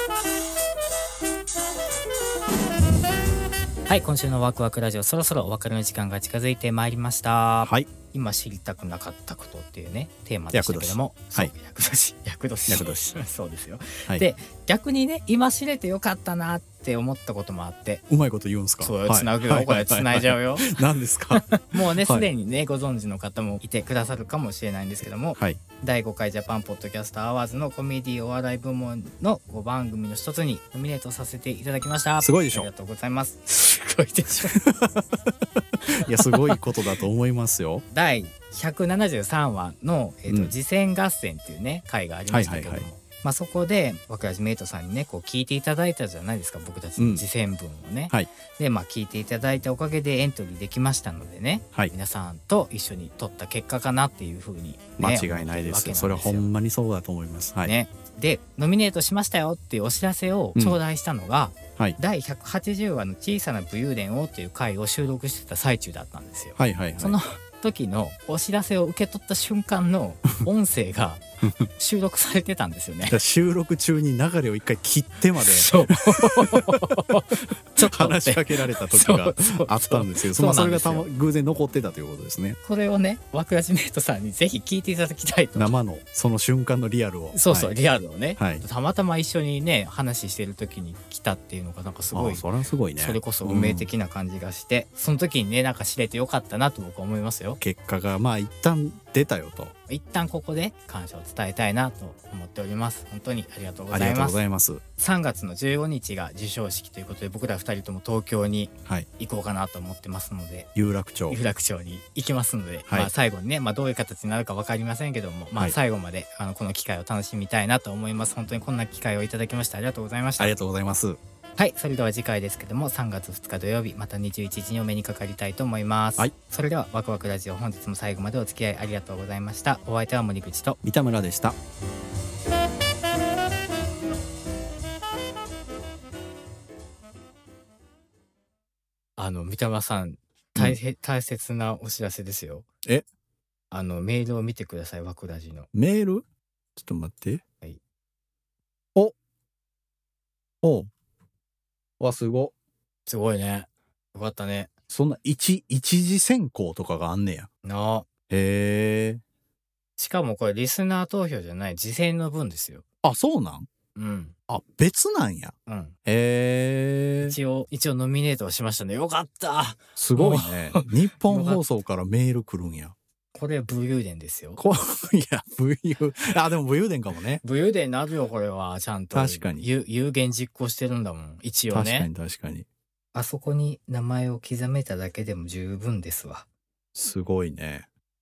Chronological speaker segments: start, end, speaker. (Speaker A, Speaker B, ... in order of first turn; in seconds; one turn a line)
Speaker A: 3.9-18.0
Speaker B: 7.6-7.9
Speaker B: 10.5-11.5
Speaker B: 12.7-13.2
Speaker B: 18.1-22.3
Speaker A: 18.8-34.6
Speaker B: 32.2-32.7
Speaker B: 34.5-37.9
Speaker A: 36.1-36.6
Speaker A: 37.9-56.5
Speaker B: 40.3-40.5
Speaker B: 42.3-42.9
Speaker B: 47.0-47.2
Speaker B: 55.0-57.7
Speaker A: 57.6-71.2
Speaker B: 66.6-67.2
Speaker B: 71.4-71.7
Speaker A: 71.8-73.2
Speaker B: 73.1-76.8
Speaker A: 75.4-81.1
Speaker B: 77.8-82.6
Speaker A: 82.6-85.7
Speaker B: 85.6-87.7
Speaker A: 87.3-92.5
Speaker B: 88.4-88.6
Speaker B: 92.1-93.9
Speaker A: 93.0-97.6
Speaker B: 97.6-99.7
Speaker A: 99.9-104.4
Speaker B: 103.9-104.8
Speaker A: 105.0-110.7
Speaker B: 110.8-111.4
Speaker A: 111.3-120.5
Speaker B: 120.4-121.2
Speaker A: 121.6-130.8
Speaker B: 130.8-131.6
Speaker A: 139.2-142.7
Speaker A: 143.7-145.7
Speaker B: 145.7-146.2
Speaker B: 146.8-147.4
Speaker B: 150.6-150.9
Speaker B: 152.0-152.5
Speaker A: 153.1-154.7
Speaker B: 154.9-157.5
Speaker A: 157.6-158.1
Speaker B: 158.3-159.2
Speaker A: 160.0-162.8
Speaker B: 163.0-163.7
Speaker A: 163.9-164.3
Speaker B: 164.5-165.5
Speaker A: 165.7-165.9
Speaker B: 166.1-167.4
Speaker A: 167.2-171.6
Speaker B: 170.0-172.9
Speaker A: 173.3-174.6
Speaker B: 174.6-177.4
Speaker A: 177.4-182.1
Speaker B: 179.1-179.7
Speaker B: 181.7-182.7
Speaker A: 183.1-186.5
Speaker B: 186.9-187.9